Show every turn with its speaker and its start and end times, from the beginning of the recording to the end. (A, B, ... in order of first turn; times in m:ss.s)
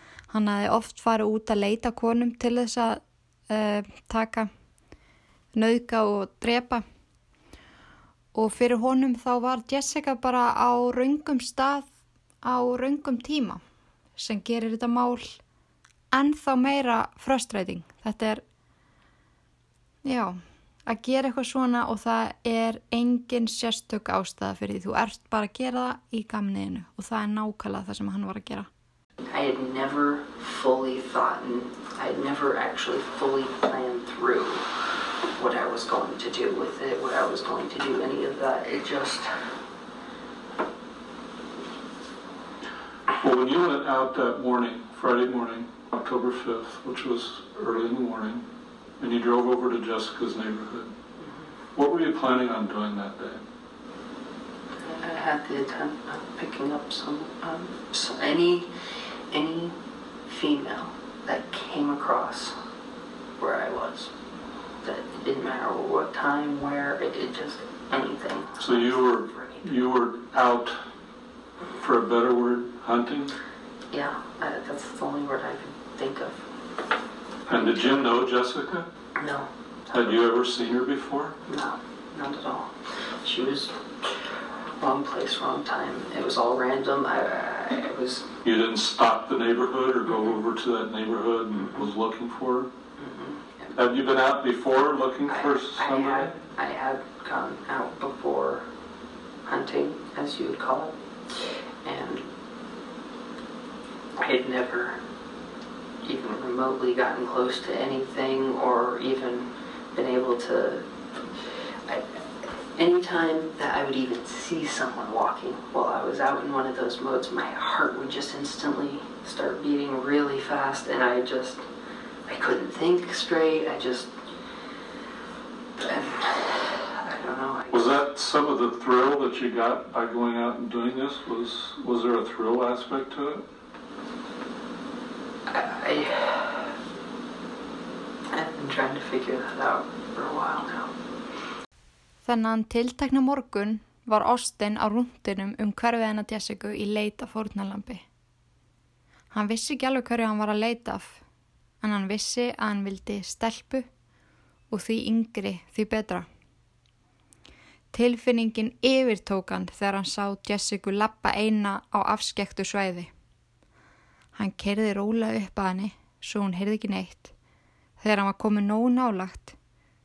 0:00.3-0:04.5 A
0:05.5-0:06.8 A
0:08.3-0:11.9 A
0:12.4-0:13.6 A
0:14.2-0:15.4 A
0:16.1-0:18.4 A
0:20.0-0:28.7 A
0:29.3-0:34.6 B
0:35.3-0:39.3 B
0:43.2-0:48.5 C
0:49.0-0:50.9 C
0:51.2-0:51.5 B
0:51.7-0:53.4 C
0:54.8-1:02.6 B
1:03.4-1:04.1 B
1:04.8-1:09.7 B
1:08.6-1:10.8 C
1:11.8-1:13.3 C
1:13.9-1:16.5 B
1:17.5-1:18.9 C
1:17.5-1:18.2 B
1:19.2-1:20.5 B
1:19.9-1:21.4 C
1:21.5-1:23.8 B
1:24.8-1:28.3 B
1:28.4-1:32.7 C
1:30.1-1:30.4 B
1:31.5-1:32.0 B
1:33.0-1:34.0 B
1:33.8-1:36.4 C
1:35.2-1:38.7 B
1:39.5-1:42.3 B
1:44.2-1:45.0 B
1:46.0-2:01.6 B
2:02.3-2:04.2 B
2:05.8-2:08.1 B
2:07.7-2:13.4 C
2:15.5-2:16.7 B
2:18.3-2:20.9 B
2:22.2-2:28.0 A
2:29.3-2:31.2 A
2:31.8-2:33.9 A
2:34.7-2:36.3 A
2:37.9-2:43.1 A
2:44.4-2:47.3 A
2:48.0-2:49.6 A